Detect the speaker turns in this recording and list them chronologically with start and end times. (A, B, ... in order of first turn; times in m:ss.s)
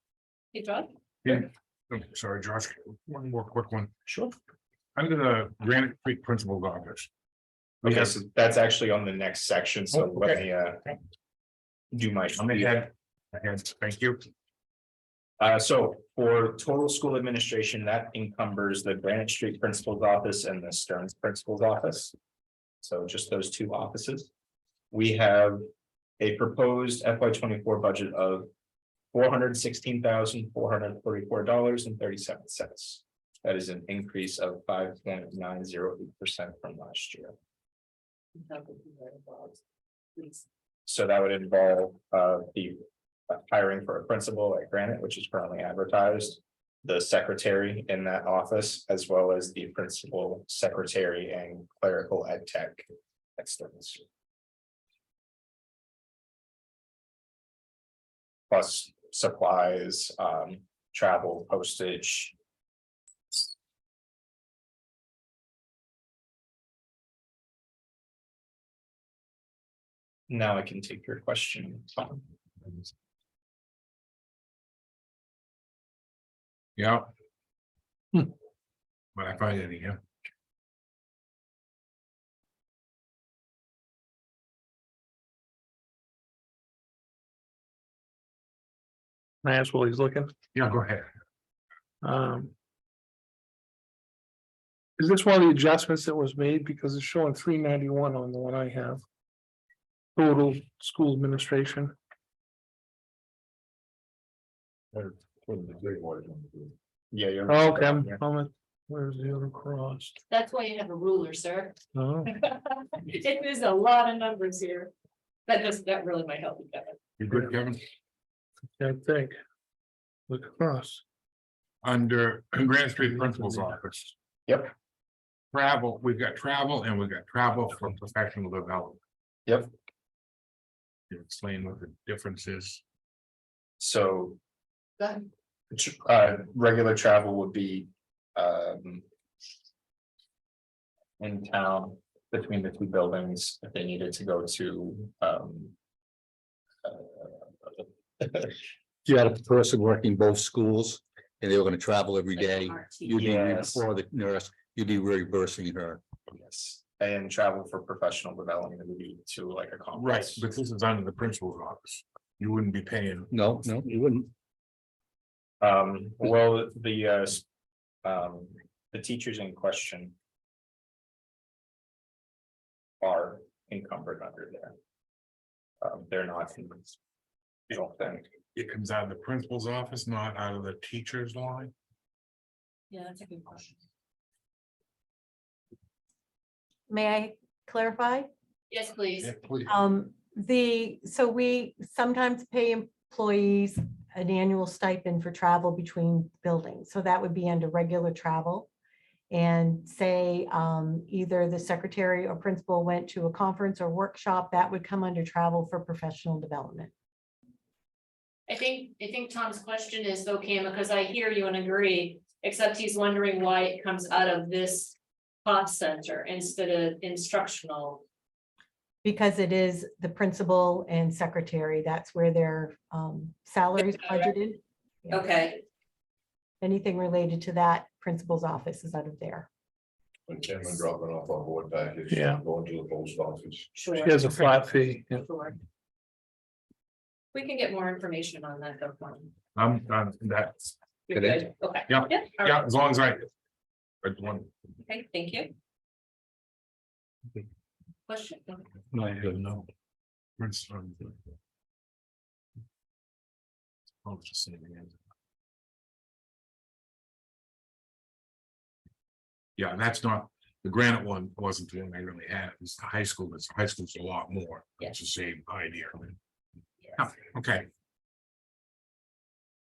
0:00.5-0:00.9 A
0:01.2-0:03.9 B
0:04.1-0:04.3 C
0:05.0-0:07.1 B
0:07.8-0:11.0 C
0:07.8-0:08.2 B
0:10.0-0:10.4 B
0:11.9-0:12.9 C
0:12.4-0:14.2 B
0:15.4-0:22.1 C
0:22.8-0:24.3 C
0:24.9-0:25.6 C
0:26.2-0:28.5 C
0:29.1-0:37.3 C
0:38.4-0:39.6 A
0:40.2-0:40.4 A
0:40.9-0:54.0 C
0:58.5-1:02.4 C
1:10.3-1:12.2 C
1:16.8-1:17.1 B
1:19.2-1:20.0 B
1:29.4-1:30.3 D
1:30.5-1:31.1 B
1:32.0-1:32.5 D
1:35.0-1:39.0 D
1:40.2-1:41.9 D
1:44.9-1:46.7 E
1:47.1-1:48.2 C
1:47.5-1:50.2 D
1:50.3-1:54.9 A
1:52.0-1:52.3 D
1:55.5-1:57.0 A
1:57.2-1:57.9 B
1:58.8-1:59.4 D
2:00.3-2:01.0 D
2:01.8-2:04.1 B
2:04.5-2:04.7 C
2:05.5-2:09.0 B
2:11.1-2:12.8 B
2:13.8-2:14.4 C
2:15.0-2:15.3 A
2:15.7-2:19.0 C
2:21.2-2:25.8 C
2:26.8-2:28.5 C
2:29.1-2:36.0 F
2:32.4-2:33.2 A
2:33.2-2:33.8 C
2:36.3-2:40.4 C
2:40.0-2:43.3 B
2:43.3-2:44.3 F
2:45.6-2:47.4 C
2:48.0-2:50.2 C
2:53.0-2:54.7 C
2:55.8-2:57.0 C
2:57.7-2:58.3 C
2:58.5-3:01.7 B
3:02.9-3:03.8 A
3:06.9-3:08.3 G
3:08.7-3:09.3 A
3:09.2-3:09.7 B
3:09.7-3:18.7 G
3:19.3-3:26.9 G
3:28.5-3:38.0 A
3:39.0-3:45.3 G
3:43.9-3:44.3 A
3:45.1-3:45.6 A
3:46.6-3:49.5 G
3:50.3-3:53.7 E
3:52.1-3:52.4 D
3:53.7-3:55.6 A
3:54.0-3:55.3 D
3:57.3-3:59.3 A
3:59.6-4:03.3 B
4:01.1-4:02.6 A
4:04.0-4:04.5 B
4:04.8-4:05.5 A
4:08.1-4:08.7 A
4:08.9-4:09.7 F
4:10.4-4:11.2 B
4:14.0-4:15.0 B
4:19.6-4:26.2 B
4:27.0-4:27.7 B